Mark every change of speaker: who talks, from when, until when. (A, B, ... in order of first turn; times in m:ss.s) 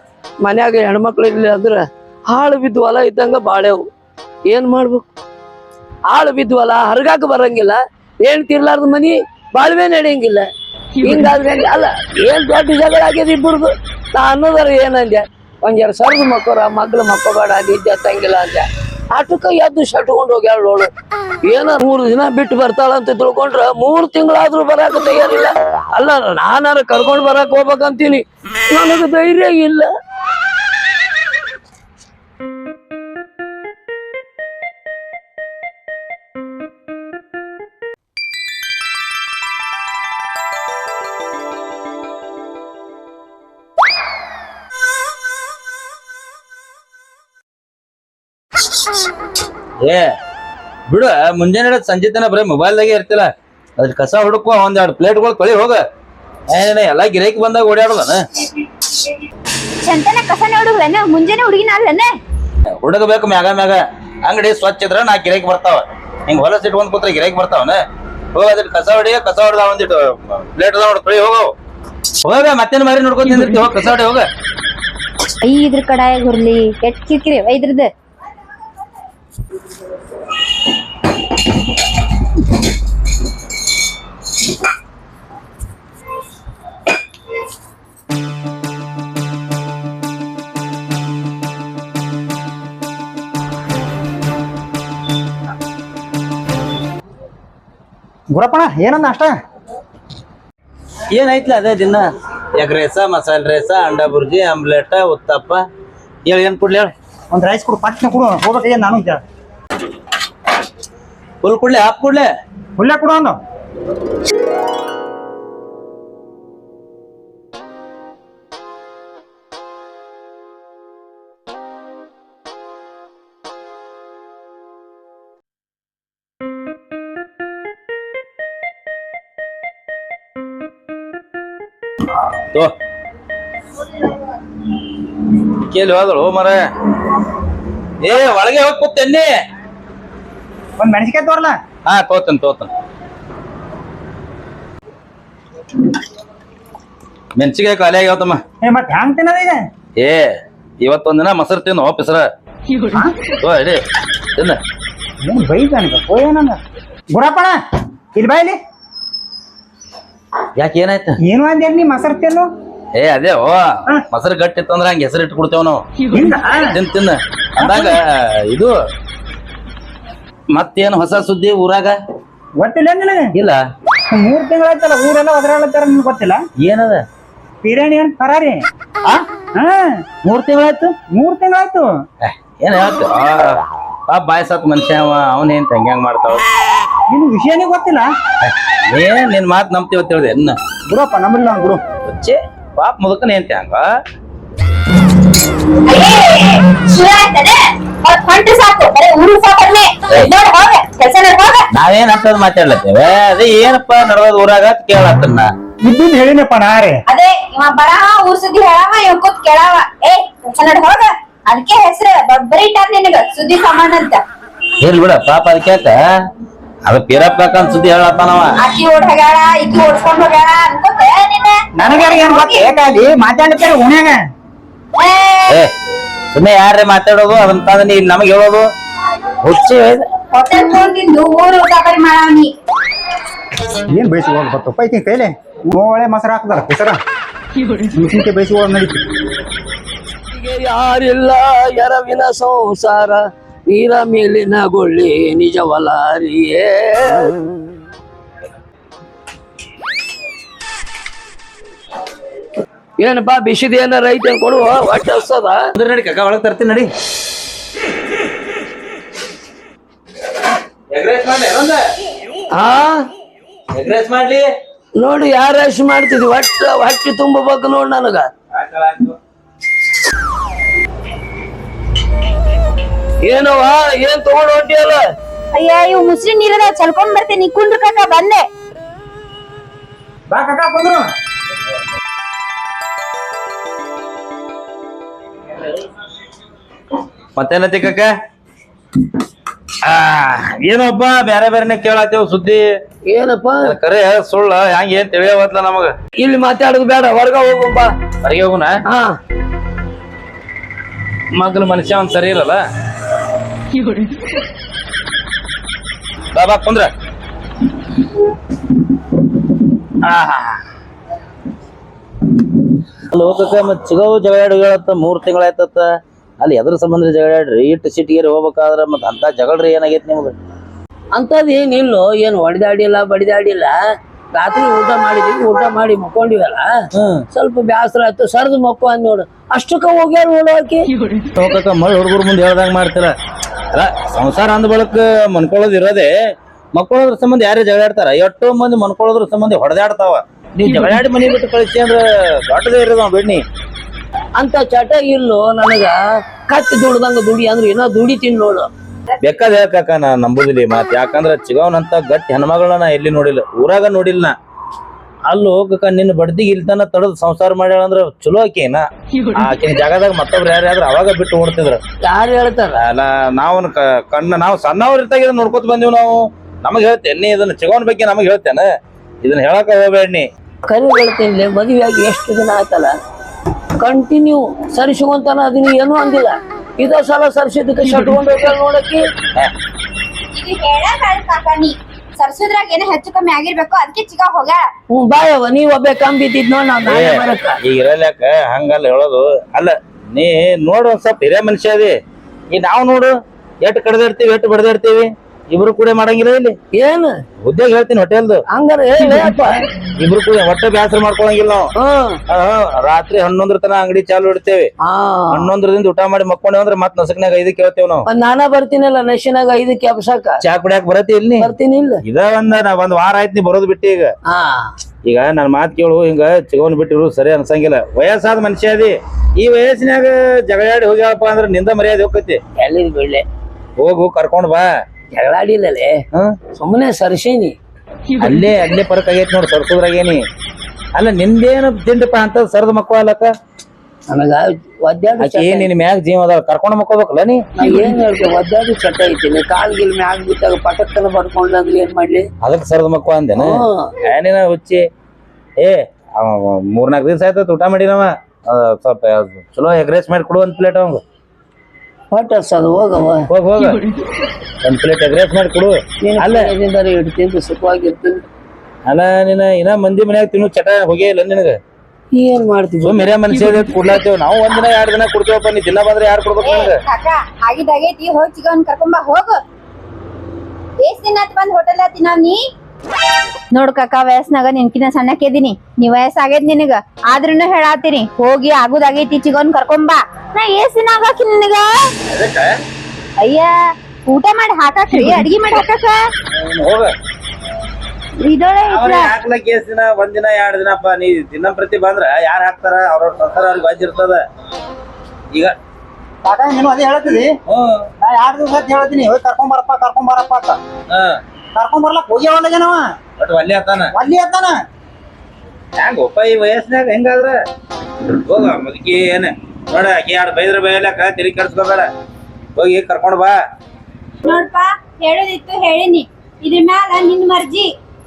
0:00.4-0:03.8 A
0:04.4-0:05.0 A
0:06.1-0:10.5 A
0:11.0-0:20.9 A
0:21.4-0:29.9 A
0:49.8-0:50.1 B
0:50.9-0:55.8 B
0:56.5-0:58.2 B
0:59.8-1:02.1 C
1:02.8-1:07.8 B
1:08.3-1:11.5 B
1:12.2-1:14.2 B
1:15.4-1:17.9 C
1:38.3-1:39.3 D
1:41.1-1:45.6 B
1:46.2-1:46.9 B
1:47.3-1:49.2 D
1:51.4-1:52.3 B
1:52.8-1:53.3 D
2:15.3-2:16.6 B
2:18.0-2:19.3 B
2:20.8-2:21.6 D
2:21.8-2:22.7 B
2:27.4-2:28.4 B
2:28.6-2:29.6 D
2:30.0-2:32.2 B
2:33.4-2:33.8 B
2:35.2-2:36.6 D
2:37.1-2:37.6 D
2:38.1-2:38.6 D
2:40.6-2:41.2 B
2:41.2-2:42.5 D
2:42.9-2:45.8 B
2:46.1-2:46.8 D
2:46.7-2:48.7 B
2:47.6-2:47.9 D
2:50.5-2:52.0 B
2:52.6-2:53.3 D
2:53.3-2:53.6 B
2:54.1-2:56.4 D
2:56.6-2:57.0 B
2:57.6-3:00.1 D
3:00.2-3:01.0 B
3:01.0-3:01.9 D
3:02.2-3:06.4 B
3:07.1-3:08.1 D
3:08.4-3:10.6 B
3:10.9-3:11.8 D
3:12.0-3:13.8 B
3:15.8-3:21.7 C
3:21.7-3:25.5 B
3:25.8-3:27.0 D
3:27.1-3:34.2 C
3:34.8-3:36.1 B
3:36.8-3:38.5 B
3:38.6-3:42.7 C
3:41.8-3:44.2 D
3:45.0-3:45.6 C
3:46.3-3:48.7 B
3:49.4-3:50.0 B
3:50.3-3:52.5 C
3:53.9-3:57.0 D
3:57.9-3:59.0 D
4:00.3-4:07.4 A
4:13.0-4:15.6 A
4:15.8-4:16.9 B
4:20.9-4:21.8 B
4:22.5-4:23.1 A
4:23.7-4:24.5 B
4:25.0-4:28.3 A
4:28.5-4:29.2 B
4:33.2-4:35.0 A
4:35.5-4:38.4 C
4:40.3-4:41.1 D
4:47.4-4:48.1 B
4:49.8-4:52.6 B
4:53.0-4:53.8 A
4:53.6-4:55.9 B
4:56.2-4:57.9 A
4:58.2-4:58.8 B
4:58.9-4:59.2 A
5:01.3-5:02.6 B
5:06.3-5:06.9 B
5:10.0-5:10.6 B
5:13.1-5:15.9 B
5:16.4-5:20.3 B
5:21.1-5:23.8 A
5:24.3-5:26.7 A
5:26.9-5:27.2 B
5:27.3-5:30.9 A
5:31.3-5:33.1 B
5:33.7-5:36.1 B
5:36.7-5:43.4 B
5:44.4-5:48.7 A
5:49.2-5:54.3 B
5:55.2-6:01.8 B
6:02.0-6:02.8 A
6:02.8-6:08.7 B
6:09.2-6:10.2 B
6:10.7-6:12.9 A
6:13.8-6:19.0 A
6:20.3-6:24.7 C
6:24.9-6:27.6 A
6:26.8-6:31.9 B
6:32.5-6:36.6 B
6:36.7-6:37.2 A
6:37.4-6:38.4 B
6:38.5-6:39.6 A
6:39.0-6:41.7 B
6:41.8-6:42.2 A
6:42.3-6:44.7 B
6:44.8-6:45.5 A
6:45.3-6:48.0 B
6:48.0-6:50.4 A
6:50.4-6:51.5 B
6:51.4-6:52.0 A
6:52.0-6:54.1 B
6:54.3-6:54.7 A
6:55.0-7:02.4 B
7:02.6-7:03.2 A
7:03.8-7:04.7 B
7:05.1-7:06.0 A
7:06.5-7:07.6 A
7:08.2-7:10.2 B
7:10.9-7:13.3 B
7:14.1-7:15.7 A
7:15.2-7:17.4 B
7:17.6-7:22.3 A
7:22.4-7:24.8 B
7:23.4-7:23.9 A
7:25.6-7:31.0 B
7:32.1-7:33.3 A
7:33.3-7:33.8 B
7:34.6-7:36.5 B
7:36.0-7:38.2 A
7:38.8-7:41.6 B
7:42.1-7:43.1 A
7:42.8-7:46.8 B
7:46.4-7:49.4 C
7:50.8-7:52.4 C
7:53.5-8:01.9 C
8:02.1-8:02.5 B
8:03.2-8:06.1 C
8:06.3-8:06.9 B
8:08.2-8:09.1 C
8:08.7-8:14.2 B
8:16.2-8:17.3 D
8:17.5-8:17.9 B
8:18.0-8:20.6 D
8:20.9-8:21.2 B
8:21.5-8:22.9 D
8:23.2-8:23.9 B
8:23.9-8:24.6 D
8:25.8-8:27.4 B
8:28.0-8:31.9 B
8:32.5-8:33.4 B
8:34.2-8:37.7 C